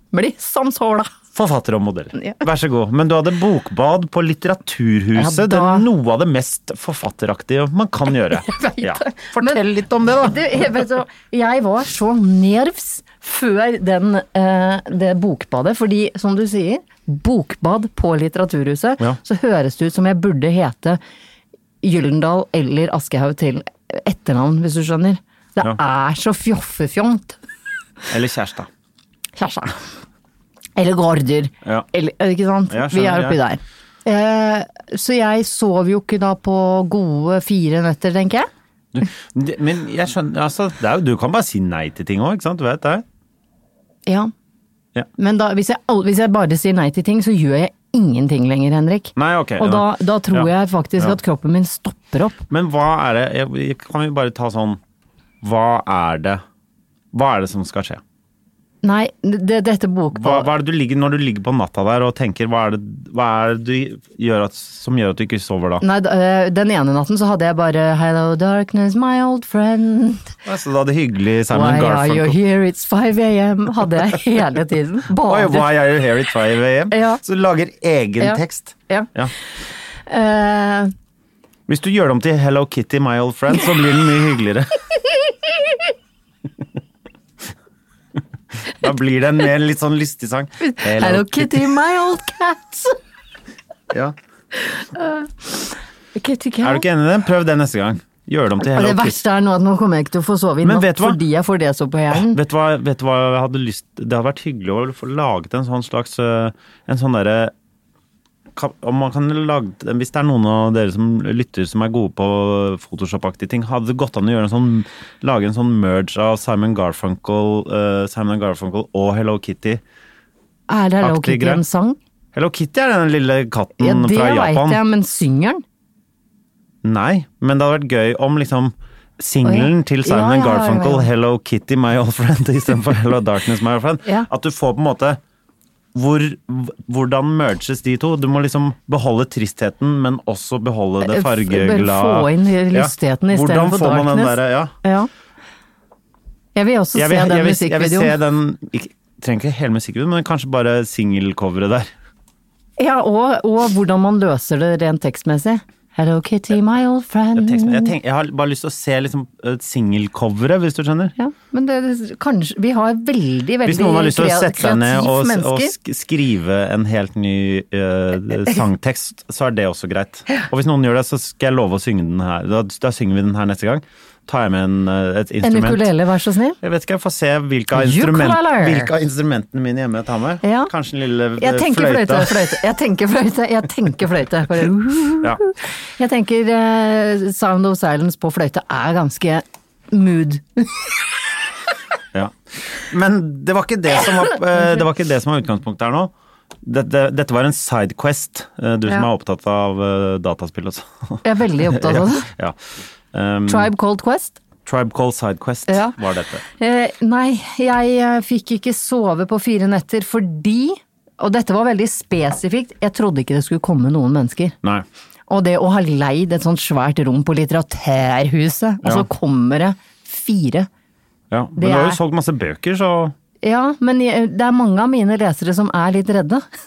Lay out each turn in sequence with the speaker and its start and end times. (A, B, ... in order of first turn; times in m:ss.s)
0:00.1-0:01.1 A
0:01.3-0:10.6 B
0:02.1-0:02.4 A
0:05.1-0:05.9 A
0:08.3-0:09.6 A
0:10.2-0:21.0 A
0:21.8-0:27.4 A
0:28.1-0:28.7 B
0:29.4-0:29.8 A
0:30.8-0:38.5 A
0:32.7-0:33.4 B
0:38.9-0:43.0 B
0:44.1-0:44.3 A
0:45.2-0:52.4 A
0:49.2-0:51.2 B
0:52.5-0:54.8 B
0:55.4-0:56.4 B
0:57.1-0:58.0 B
0:58.8-1:00.5 A
1:00.1-1:05.8 B
1:05.8-1:10.3 A
1:10.4-1:12.4 B
1:11.5-1:15.7 A
1:15.2-1:19.3 B
1:16.9-1:17.2 A
1:18.2-1:19.1 A
1:20.1-1:20.9 A
1:21.7-1:24.8 B
1:28.6-1:31.7 B
1:30.6-1:33.0 A
1:33.9-1:34.2 B
1:34.5-1:36.8 A
1:36.6-1:39.2 B
1:38.6-1:42.4 A
1:40.6-1:41.2 B
1:42.1-1:47.5 B
1:48.5-1:59.8 B
2:00.7-2:02.0 A
2:01.0-2:01.6 B
2:02.3-2:04.8 B
2:03.8-2:05.6 A
2:06.8-2:15.2 B
2:09.4-2:11.1 A
2:15.9-2:24.7 B
2:21.0-2:25.1 A
2:26.5-2:28.1 A
2:26.9-2:31.9 B
2:32.8-2:37.9 A
2:37.4-2:41.1 B
2:41.2-2:45.7 A
2:43.6-2:55.9 B
2:55.4-2:56.6 A
2:56.6-3:02.5 B
2:57.7-2:58.9 A
3:00.4-3:00.7 A
3:01.4-3:10.9 A
3:12.1-3:16.1 B
3:16.6-3:22.6 B
3:21.2-3:22.3 A
3:23.1-3:23.7 B
3:23.5-3:24.4 A
3:24.6-3:26.4 B
3:25.7-3:26.0 A
3:26.5-3:34.6 A
3:35.3-3:40.7 A
3:38.8-3:39.1 B
3:41.3-3:43.1 B
3:41.6-3:42.0 A
3:43.4-3:46.4 A